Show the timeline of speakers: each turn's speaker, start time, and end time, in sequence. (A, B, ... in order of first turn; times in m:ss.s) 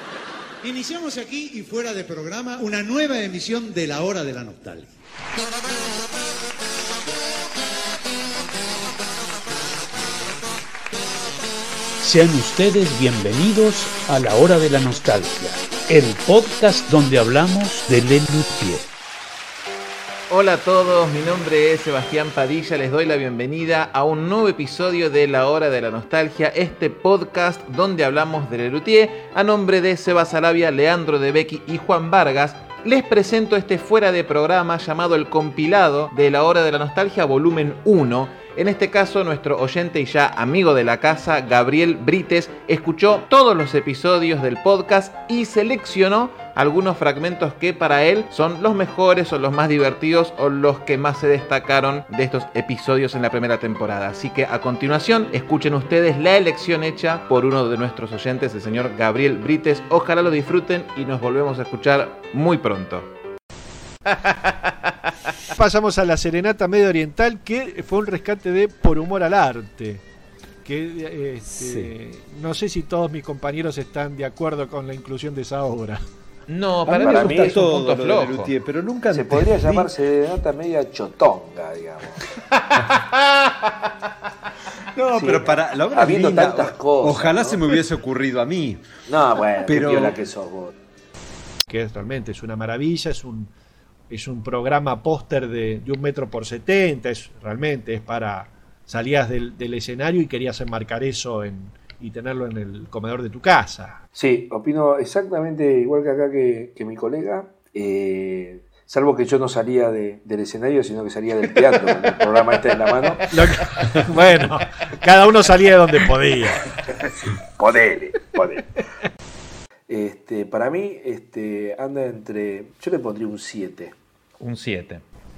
0:00.6-0:04.9 A
0:12.0-0:18.9 B
0:20.3-1:03.1 C
1:04.1-1:05.1 C
1:05.6-1:10.0 D
1:10.6-1:16.0 D
1:11.5-1:11.9 E
1:16.5-1:18.5 C
1:16.9-1:19.9 E
1:17.0-1:17.6 F
1:19.1-1:22.2 F
1:22.8-1:23.0 E
1:25.0-1:28.8 E
1:25.1-1:27.6 F
1:29.1-1:30.7 F
1:29.6-1:30.2 E
1:31.7-1:33.5 D
1:34.1-1:44.0 D
1:44.2-1:53.3 F
1:53.3-1:56.7 D
1:57.0-1:58.6 F
1:59.9-2:03.9 F
2:04.4-2:05.0 C